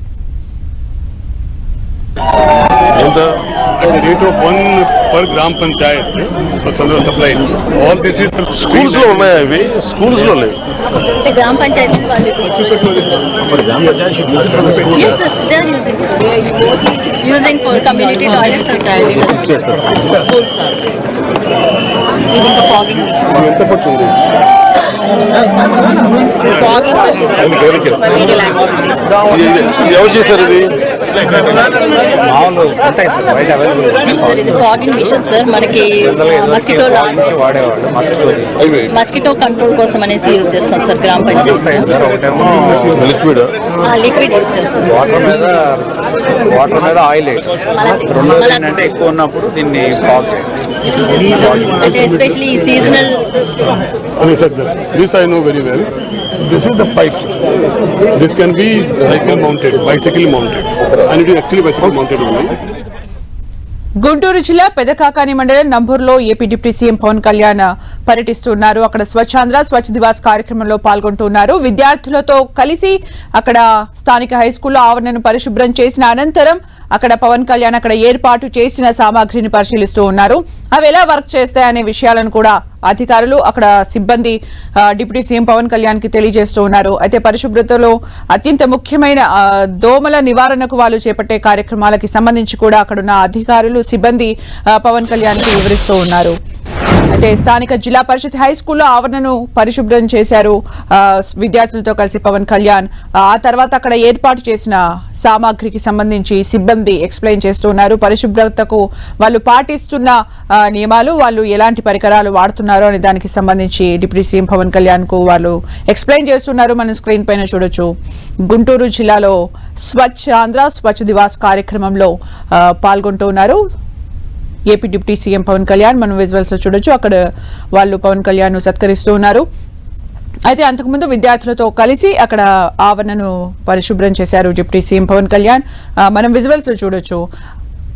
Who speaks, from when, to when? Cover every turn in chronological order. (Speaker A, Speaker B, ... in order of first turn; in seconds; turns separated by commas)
Speaker A: 2.9-3.3, Speaker B: 3.8-9.3, Speaker A: 8.6-10.6, Speaker C: 11.2-13.5, Speaker B: 13.5-15.0, Speaker C: 14.9-19.7, Speaker C: 22.3-23.1, Speaker B: 23.1-24.3, Speaker C: 26.4-27.1, Speaker D: 27.5-28.3, Speaker B: 27.5-28.1, Speaker A: 29.1-30.8, Speaker D: 32.2-34.1, Speaker C: 34.0-37.4, Speaker D: 37.2-38.6, Speaker C: 38.8-41.9, Speaker D: 41.8-43.0, Speaker A: 43.0-43.5, Speaker C: 43.8-45.1, Speaker D: 45.0-45.9, Speaker D: 46.5-47.5, Speaker C: 47.7-48.7, Speaker D: 48.1-50.5, Speaker C: 51.8-53.2, Speaker B: 54.2-57.4, Speaker B: 58.1-62.5, Speaker E: 64.0-96.3, Speaker E: 97.1-117.9, Speaker E: 118.5-123.6, Speaker E: 124.7-127.2, Speaker E: 127.7-129.4, Speaker E: 130.5-137.2